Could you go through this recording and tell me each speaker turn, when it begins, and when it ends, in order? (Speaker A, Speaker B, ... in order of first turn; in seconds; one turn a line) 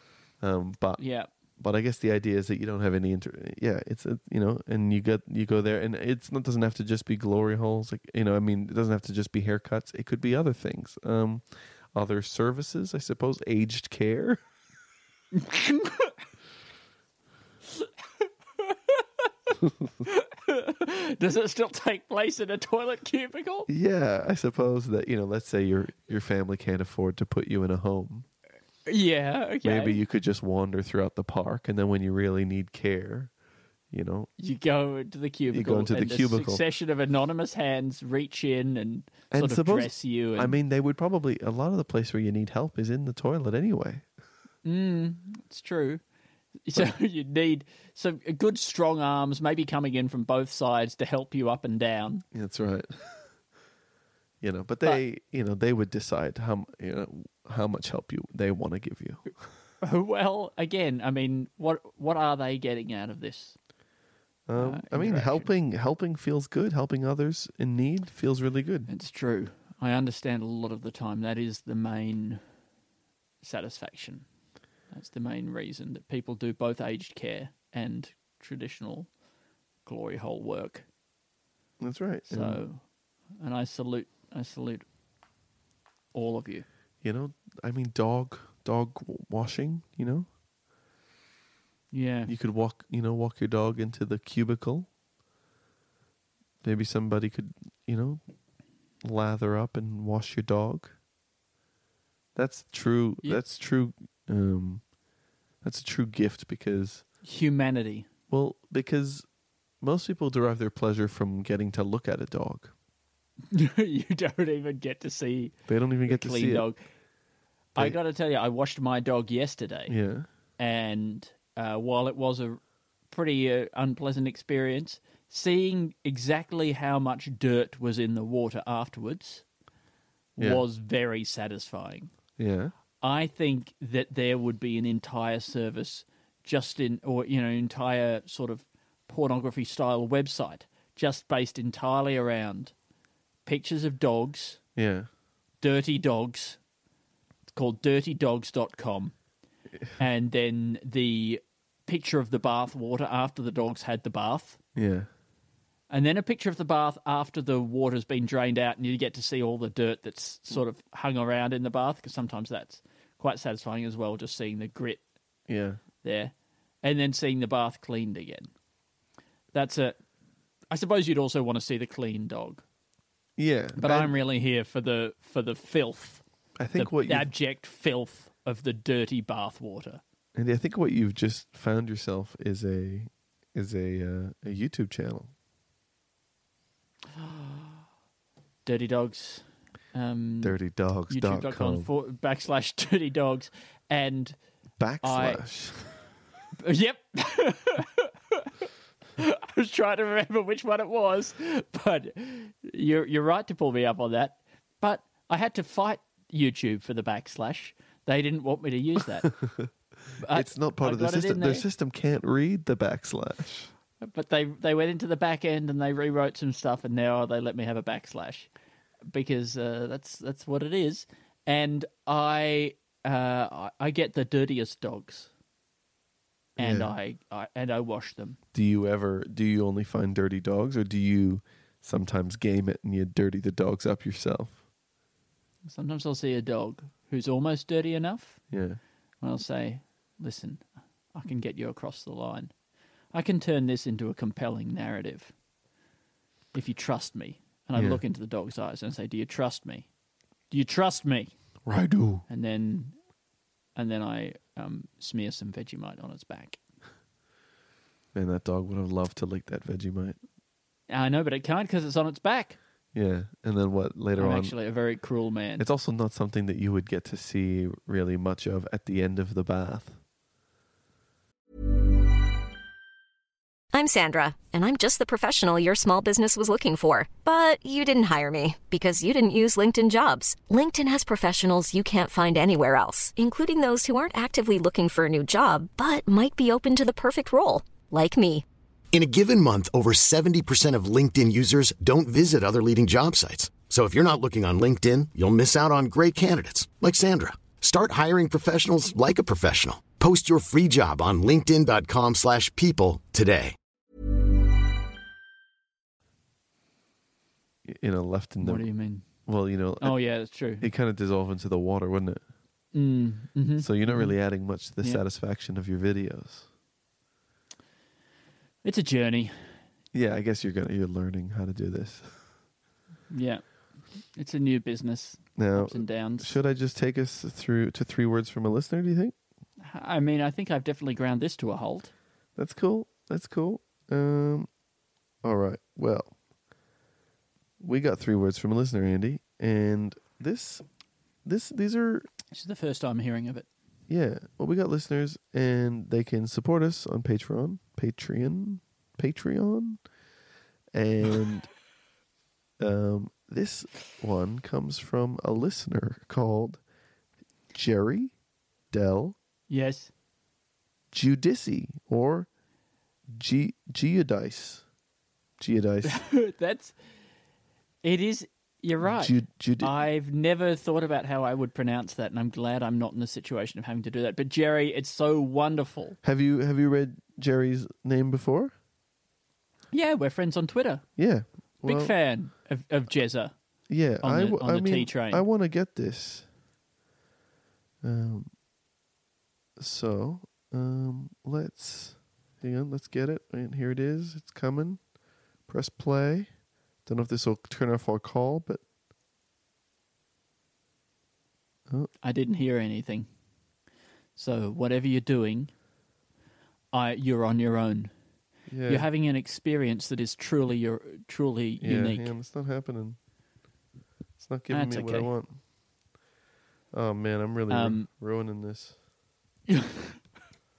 Speaker A: 0.4-1.0
Speaker B: 1.0-1.3
Speaker A: 1.6-14.4
Speaker B: 15.3-16.2
Speaker B: 17.8-19.5
Speaker A: 19.6-19.9
Speaker B: 20.0-23.7
Speaker A: 23.7-28.2
Speaker B: 28.9-30.0
Speaker A: 29.6-33.3
Speaker A: 33.9-34.3
Speaker B: 34.4-40.6
Speaker A: 35.5-36.6
Speaker A: 39.3-44.1
Speaker B: 44.6-46.0
Speaker B: 46.6-52.2
Speaker A: 52.3-53.3
Speaker A: 54.4-59.3
Speaker B: 59.8-63.6
Speaker A: 64.5-68.9
Speaker B: 64.6-65.5
Speaker B: 68.9-72.4
Speaker B: 73.4-74.2
Speaker B: 74.9-79.1
Speaker B: 79.8-80.8
Speaker A: 81.8-82.6
Speaker B: 82.3-82.8
Speaker B: 83.4-84.8
Speaker B: 86.1-86.7
Speaker A: 87.0-90.3
Speaker B: 91.9-92.3
Speaker A: 92.3-94.9
Speaker A: 96.6-98.2
Speaker A: 99.0-101.0
Speaker A: 102.3-104.8
Speaker A: 105.6-107.0
Speaker B: 107.2-108.1
Speaker A: 108.3-109.2
Speaker A: 109.8-112.7
Speaker B: 113.5-115.5
Speaker A: 115.7-116.7
Speaker B: 116.1-116.8
Speaker B: 117.7-119.9
Speaker A: 119.9-120.3
Speaker B: 120.6-129.4
Speaker B: 130.3-132.1
Speaker A: 130.4-130.6
Speaker A: 132.4-132.7
Speaker B: 133.0-142.7
Speaker B: 143.4-144.6
Speaker A: 144.8-145.1
Speaker B: 145.6-146.6
Speaker B: 147.5-149.1
Speaker B: 150.0-154.6
Speaker A: 154.7-155.1
Speaker B: 155.9-165.0
Speaker A: 165.5-165.8
Speaker B: 166.0-168.5
Speaker B: 169.5-170.0
Speaker B: 170.7-172.6
Speaker A: 173.4-174.1
Speaker B: 173.8-176.2
Speaker A: 176.6-177.3
Speaker B: 176.7-180.0
Speaker A: 180.3-185.3
Speaker B: 187.1-187.8
Speaker B: 188.7-190.6
Speaker A: 190.4-191.9
Speaker B: 191.1-194.4
Speaker A: 194.8-196.1
Speaker B: 195.0-195.4
Speaker B: 196.6-198.7
Speaker B: 199.2-209.3
Speaker A: 209.2-209.7
Speaker B: 210.2-211.7
Speaker A: 210.3-213.7
Speaker B: 214.0-218.5
Speaker B: 219.1-225.3
Speaker B: 226.6-228.4
Speaker A: 226.6-226.9
Speaker A: 228.5-234.6
Speaker B: 235.7-238.4
Speaker A: 238.5-238.8
Speaker B: 239.2-242.5
Speaker B: 243.1-245.3
Speaker B: 246.5-249.9
Speaker A: 247.7-248.0
Speaker B: 250.5-251.3
Speaker A: 251.7-252.2
Speaker B: 252.3-253.0
Speaker B: 253.7-256.6
Speaker A: 258.1-260.2
Speaker B: 260.9-262.6
Speaker A: 262.9-264.5
Speaker B: 264.1-265.6
Speaker A: 265.6-270.0
Speaker C: 273.7-288.4
Speaker D: 288.9-303.5
Speaker A: 307.6-308.7
Speaker B: 308.4-309.0
Speaker A: 309.2-310.0
Speaker B: 309.8-310.7
Speaker A: 310.6-312.2
Speaker B: 312.7-314.2
Speaker A: 313.6-316.5
Speaker B: 318.6-319.6
Speaker A: 319.9-322.2
Speaker B: 323.1-323.4
Speaker B: 324.1-326.3
Speaker A: 325.4-329.1
Speaker B: 329.6-331.9
Speaker A: 332.4-334.5
Speaker A: 335.2-336.1
Speaker A: 337.6-340.6
Speaker A: 341.2-342.1
Speaker B: 342.3-343.5
Speaker A: 343.9-349.8
Speaker A: 350.7-351.5
Speaker A: 352.6-356.6
Speaker A: 357.5-358.1
Speaker A: 358.7-359.1
Speaker B: 359.5-359.9
Speaker A: 360.9-362.3
Speaker A: 363.1-364.6
Speaker A: 365.4-366.0
Speaker B: 365.8-366.7
Speaker B: 367.8-376.0
Speaker A: 368.8-369.7
Speaker A: 376.0-378.5
Speaker B: 379.7-380.9
Speaker A: 381.0-381.9
Speaker B: 381.6-383.3
Speaker A: 383.7-386.3
Speaker B: 384.0-385.2
Speaker A: 387.8-388.3
Speaker A: 389.6-394.8
Speaker A: 395.5-396.3
Speaker A: 396.9-398.6
Speaker B: 402.0-403.1
Speaker B: 404.1-405.5
Speaker B: 406.7-407.9
Speaker A: 408.5-408.9
Speaker B: 408.7-412.1
Speaker A: 411.6-413.0
Speaker A: 414.2-415.4
Speaker B: 414.5-415.1
Speaker A: 416.7-418.8
Speaker B: 417.5-417.9
Speaker B: 419.5-420.0